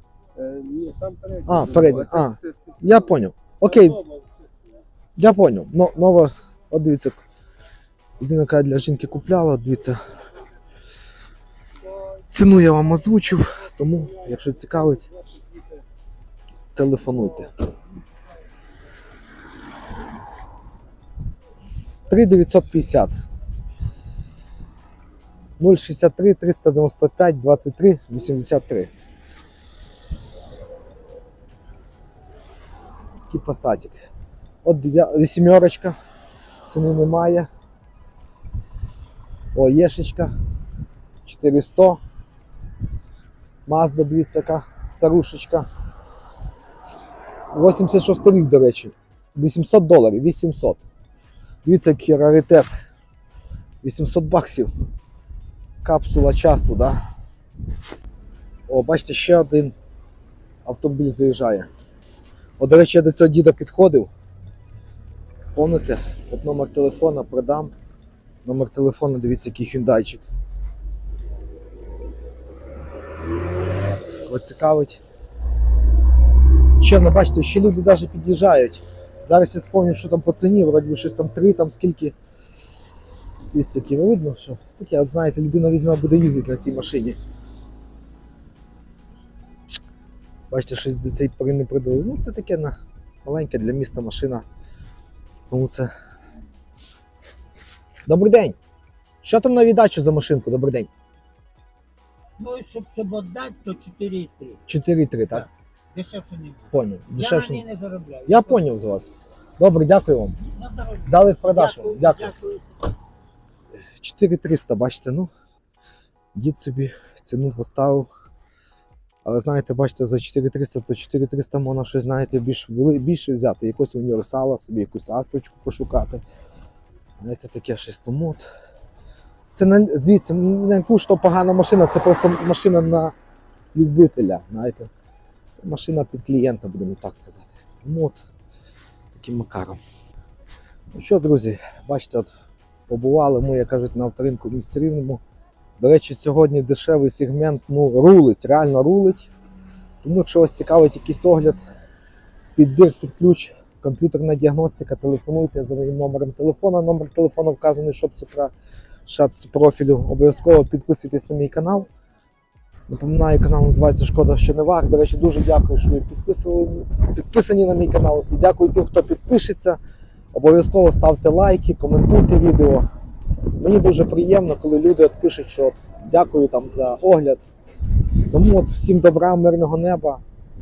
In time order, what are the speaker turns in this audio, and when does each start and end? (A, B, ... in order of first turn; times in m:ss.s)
0:00.4-0:02.9 A
0:01.4-0:04.0 B
0:03.7-0:04.2 A
0:05.2-0:07.2 B
0:08.2-0:10.0 B
0:12.3-0:15.1 B
0:16.8-0:17.5 B
0:22.1-0:23.1 B
0:25.6-0:28.9 B
0:33.3-0:34.0 B
0:34.6-0:35.9 B
0:36.6-0:37.5 B
0:39.5-0:40.3 B
0:41.2-0:42.0 B
0:43.6-0:45.7 B
0:47.5-0:50.8 B
0:51.6-0:52.7 B
0:53.8-0:54.7 B
0:55.8-0:57.0 B
0:58.7-0:59.7 B
1:00.6-1:01.7 B
1:02.6-1:04.1 B
1:05.5-1:07.7 B
1:08.4-1:10.2 B
1:14.2-1:15.0 B
1:16.8-1:22.1 B
1:23.5-1:27.2 B
1:30.5-1:34.4 B
1:35.5-1:35.9 B
1:38.1-1:38.6 B
1:39.2-1:40.9 B
1:42.4-1:44.6 C
1:44.6-1:45.5 B
1:45.9-1:46.7 C
1:46.7-1:47.7 B
1:47.3-1:48.4 C
1:48.2-1:50.5 B
1:50.5-1:51.0 C
1:51.0-1:52.4 B
1:51.8-1:52.6 C
1:54.0-1:55.3 B
1:56.3-1:58.1 B
1:59.2-2:06.2 B
2:07.2-2:08.4 B
2:09.5-2:13.1 B
2:13.7-2:14.9 B
2:15.5-2:18.2 B
2:19.1-2:19.8 B
2:20.9-2:22.3 B
2:22.9-2:25.2 B
2:25.8-2:29.3 B
2:30.0-2:31.6 B
2:32.6-2:38.5 B
2:39.0-2:41.9 B
2:42.9-2:49.8 B
2:50.3-2:52.8 B
2:53.5-2:57.4 B
2:58.3-3:00.2 B